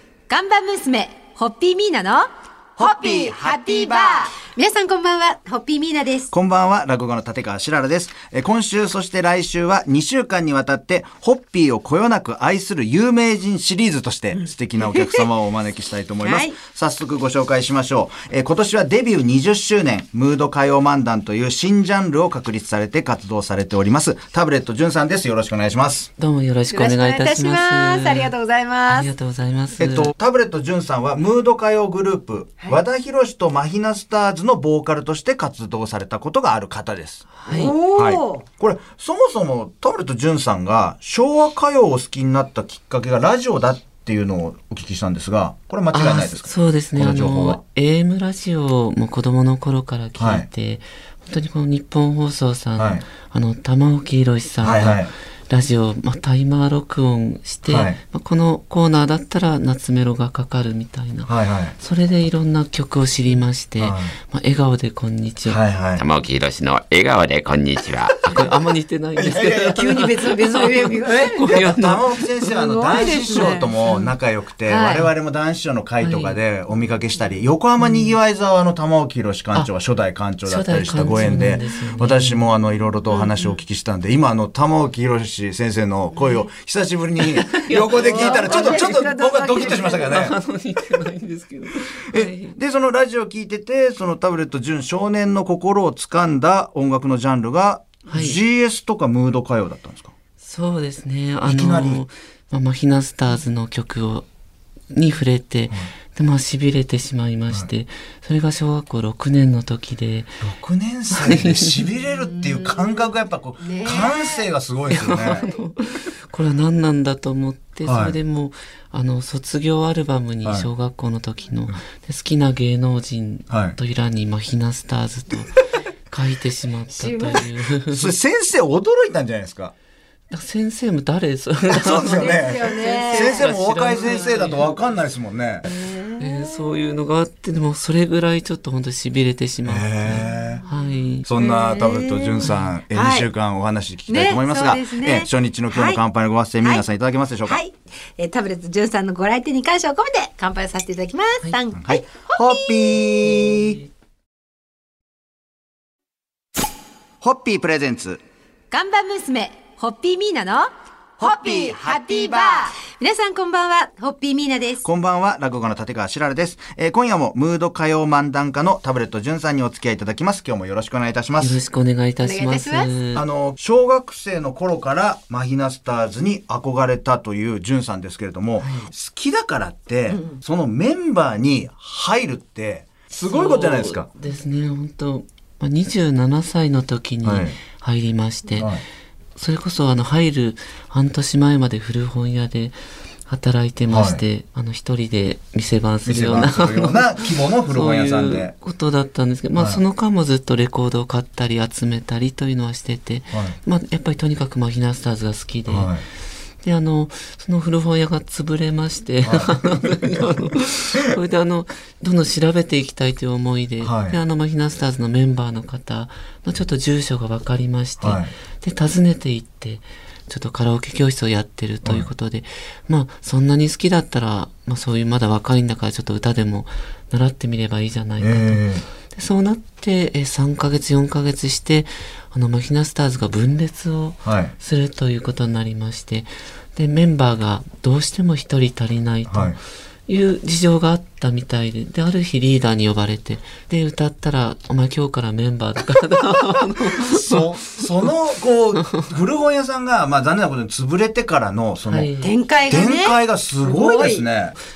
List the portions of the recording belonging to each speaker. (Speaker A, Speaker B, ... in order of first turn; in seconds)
Speaker A: 0.3-6.3, 14.4-15.3, 16.2-16.6, 26.7-29.1, 37.5-38.5, 69.7-71.7, 72.5-74.1, 74.6-75.1, 81.2-81.5, 83.1-83.6, 88.0-90.2, 112.1-115.6, 126.9-127.5, 132.1-133.5, 135.7-136.7, 141.3-143.3, 144.1-146.0, 147.4-152.9, 158.7-164.9, 172.2-172.9, 180.1-180.4, 252.2-254.3
Speaker B: 6.3-26.1, 29.8-37.3, 38.0-47.6, 50.2-50.5, 52.8-53.0, 54.6-55.1, 57.7-58.0, 61.3-61.8, 63.8-64.2, 65.5-66.0, 69.2-69.8, 71.5-90.4, 92.1-100.1, 101.4-102.0, 110.4-115.4, 117.8-118.2, 123.5-123.8, 127.9-129.7, 131.7-135.7, 139.7-140.6, 141.2-147.6, 151.8-153.8, 157.2-158.2, 164.8-171.6, 173.1-184.1, 187.2-187.6, 188.5-188.8, 193.9-194.2, 196.1-198.5, 199.6-199.8, 203.3-203.6, 205.7-206.0, 209.2-209.9, 213.8-214.2, 218.0-218.3, 228.2-228.8, 234.2-234.5, 239.3-239.6, 247.1-252.1, 252.7-254.6
Speaker C: 26.2-28.3, 28.9-30.1, 37.4-37.8, 45.9-65.6, 68.3-72.3, 73.0-73.7, 76.0-76.4, 77.8-78.2, 80.5-82.5, 87.2-89.1, 89.6-92.6, 98.1-98.4, 100.4-104.3, 104.9-110.4, 111.1-111.8, 114.9-125.6, 126.1-128.1, 130.3-134.8, 136.2-141.3, 142.4-142.7, 153.0-153.9, 171.4-173.2, 178.6-178.9, 183.2-188.8, 189.4-192.8, 193.3-206.0, 206.6-239.6, 240.1-248.1, 251.9-252.3
Speaker D: 66.0-68.4